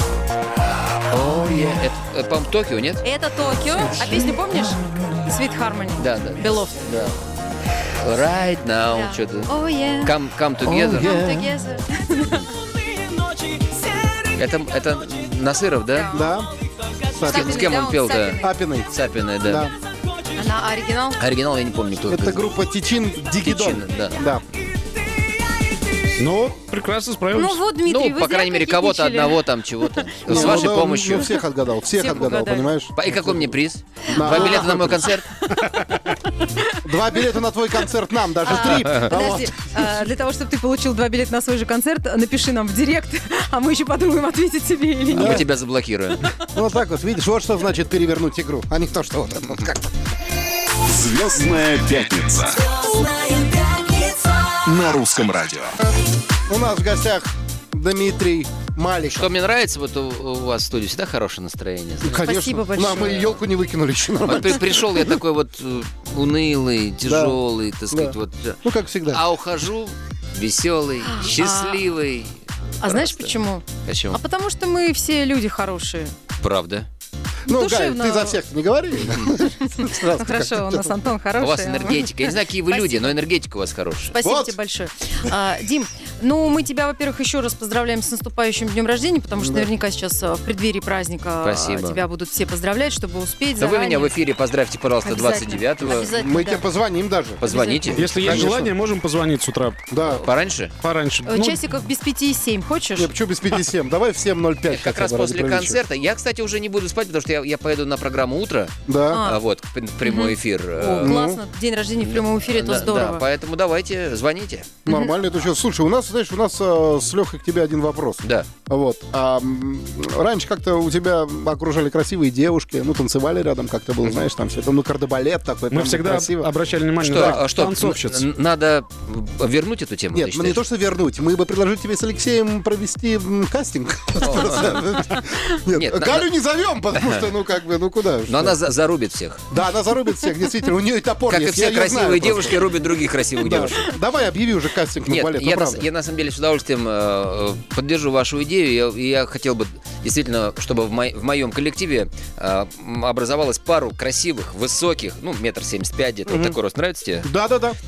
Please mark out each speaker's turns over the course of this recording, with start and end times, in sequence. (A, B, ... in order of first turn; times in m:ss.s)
0:01.1-0:03.0 A
0:03.0-0:06.8 B
0:06.0-0:11.2 A
0:08.9-0:10.1 B
0:10.6-0:11.5 C
0:10.9-0:12.5 B
0:14.4-0:16.1 A
0:15.9-0:16.4 B
0:16.1-0:16.5 C
0:17.2-0:17.6 C
0:17.2-0:18.6 B
0:17.2-0:19.7 A
0:18.4-0:18.9 C
0:19.4-0:19.7 C
0:20.4-0:21.2 B
0:21.2-0:22.5 A
0:22.1-0:24.4 C
0:23.4-0:24.2 A
0:26.2-0:27.6 D
0:27.4-0:29.4 B
0:27.8-0:31.3 A
0:30.3-0:31.3 B
0:30.3-0:33.5 C
0:31.9-0:32.8 B
0:33.0-0:35.3 A
0:34.1-0:35.0 B
0:34.1-0:35.1 C
0:36.4-0:36.9 B
0:36.8-0:39.5 C
0:38.4-0:45.4 B
0:38.7-0:39.1 A
0:45.1-0:46.2 A
0:45.1-0:45.4 C
0:46.5-0:49.9 C
0:50.9-0:52.6 E
0:53.5-0:53.8 A
0:54.6-0:55.7 E
0:56.5-0:59.3 C
0:59.1-1:03.4 A
1:02.0-1:05.2 C
1:02.2-1:03.2 B
1:04.2-1:13.3 A
1:07.0-1:09.2 C
1:11.2-1:11.9 B
1:12.8-1:16.1 B
1:13.8-1:14.2 A
1:16.4-1:16.9 A
1:17.5-1:20.9 C
1:17.5-1:18.4 B
1:19.6-1:23.2 B
1:21.4-1:24.2 A
1:24.1-1:34.1 B
1:24.2-1:24.6 C
1:29.4-1:29.7 C
1:31.4-1:32.0 A
1:33.6-1:36.1 A
1:35.0-1:36.6 B
1:35.9-1:38.7 C
1:37.4-1:38.5 B
1:37.4-1:38.2 A
1:38.0-1:39.9 D
1:39.9-1:40.3 C
1:40.1-1:40.7 A
1:40.8-1:41.6 D
1:41.3-1:43.1 B
1:43.0-1:45.8 C
1:44.7-1:51.2 A
1:48.9-1:49.2 C
1:49.1-1:49.4 B
1:50.0-1:53.2 B
1:51.0-1:51.4 C
1:52.0-1:54.8 A
1:54.9-1:55.1 B
1:54.9-2:06.5 C
1:58.2-1:58.5 A
2:04.0-2:04.3 A
2:05.7-2:08.2 D
2:07.0-2:10.6 A
2:07.2-2:07.4 C
2:10.1-2:18.6 C
2:14.2-2:14.8 A
2:15.7-2:16.3 A
2:17.0-2:17.3 A
2:18.3-2:19.4 A
2:19.5-2:22.6 C
2:21.3-2:23.9 A
2:23.4-2:25.9 C
2:25.1-2:37.3 A
2:36.3-2:36.6 C
2:37.2-2:37.8 C